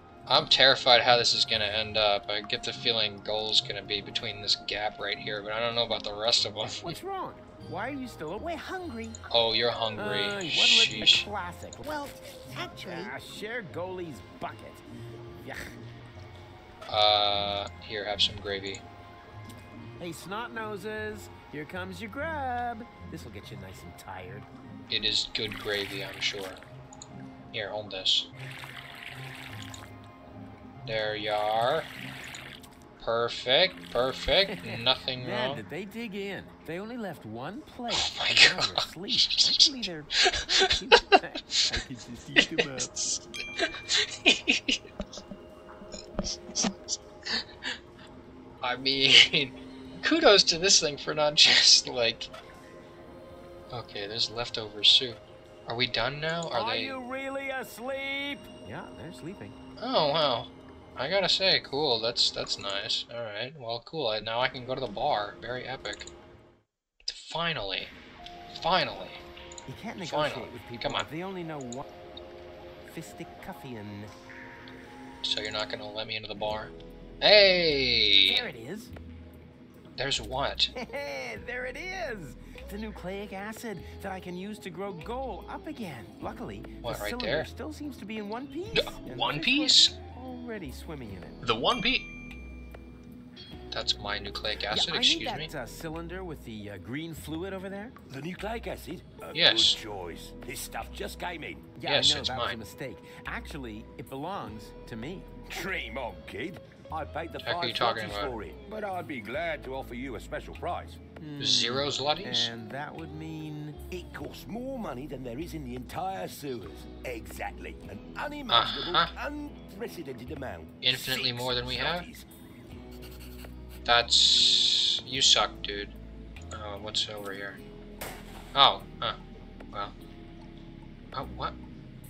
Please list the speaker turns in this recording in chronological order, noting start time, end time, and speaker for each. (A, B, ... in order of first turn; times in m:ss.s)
0:00.3-0:07.0 A
0:06.8-0:08.6 B
0:08.4-0:09.2 C
0:09.3-0:11.3 A
0:09.9-0:11.9 B
0:11.8-0:13.1 C
0:12.8-0:15.7 B
0:16.9-0:18.8 A
0:20.0-0:24.5 B
0:24.9-0:26.6 A
0:27.5-0:28.3 A
0:30.8-0:31.9 A
0:33.0-0:35.6 A
0:34.5-0:42.9 B
0:37.9-0:39.6 A
0:42.4-0:44.8 A
0:46.2-0:47.7 A
0:48.6-0:52.3 A
0:53.7-0:57.0 A
0:56.5-0:59.6 B
0:59.8-1:06.1 A
1:07.1-1:07.9 A
1:08.5-1:09.2 A
1:09.7-1:11.8 B
1:10.0-1:11.1 A
1:12.8-1:14.1 B
1:15.2-1:18.5 A
1:18.2-1:18.9 B
1:20.0-1:20.7 A
1:20.8-1:31.4 B
1:26.8-1:27.5 A
1:28.8-1:29.9 A
1:31.4-1:32.1 A
1:33.7-1:35.5 A
1:34.7-1:37.9 B
1:38.1-1:41.8 D
1:39.3-1:39.8 A
1:41.8-1:45.3 B
1:41.8-1:42.6 A
1:45.4-1:51.0 D
1:47.4-1:48.4 A
1:51.2-1:53.8 B
1:51.4-1:52.5 A
1:53.9-2:02.3 D
1:58.5-1:59.1 A
2:00.8-2:02.1 A
2:03.8-2:05.9 A
2:06.5-2:07.6 A
2:08.5-2:09.2 A
2:11.1-2:11.6 A